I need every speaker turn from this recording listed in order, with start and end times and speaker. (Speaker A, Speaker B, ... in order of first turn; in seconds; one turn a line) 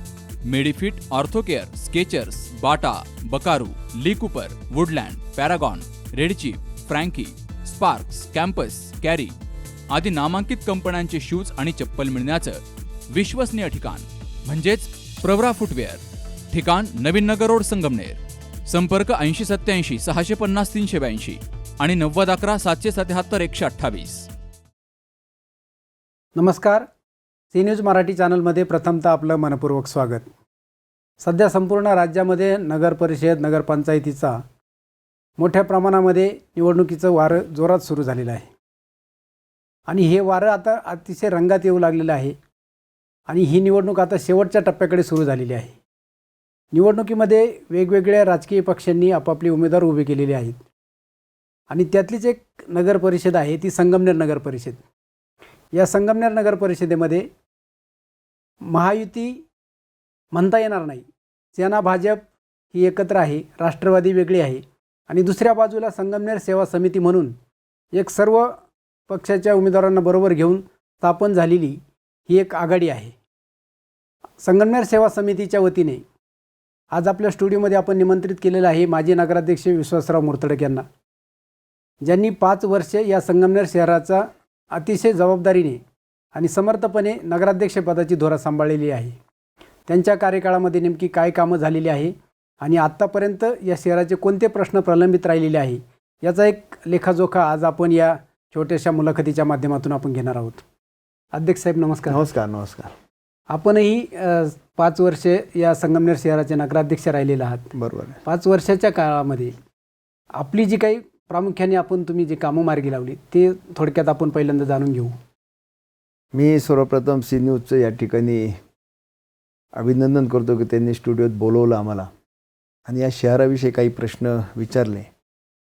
Speaker A: 0.4-9.3
Speaker A: 9.9-24.3
Speaker B: 26.4-26.9
Speaker B: 27.5-30.3
Speaker B: 31.2-34.4
Speaker B: 35.4-38.5
Speaker B: 39.9-42.4
Speaker B: 43.3-45.7
Speaker B: 46.7-50.6
Speaker B: 51.7-54.8
Speaker B: 55.7-57.3
Speaker B: 58.6-59.4
Speaker B: 60.3-67.3
Speaker B: 67.9-68.6
Speaker B: 69.1-73.1
Speaker B: 74.4-76.0
Speaker B: 76.9-80.8
Speaker B: 82.0-85.8
Speaker B: 86.3-89.2
Speaker B: 89.9-100.6
Speaker B: 101.3-102.2
Speaker C: 102.1-102.9
Speaker B: 103.5-109.5
Speaker C: 107.7-108.2
Speaker B: 110.4-115.2
Speaker C: 116.3-118.6
Speaker C: 119.7-122.1
Speaker C: 122.8-125.1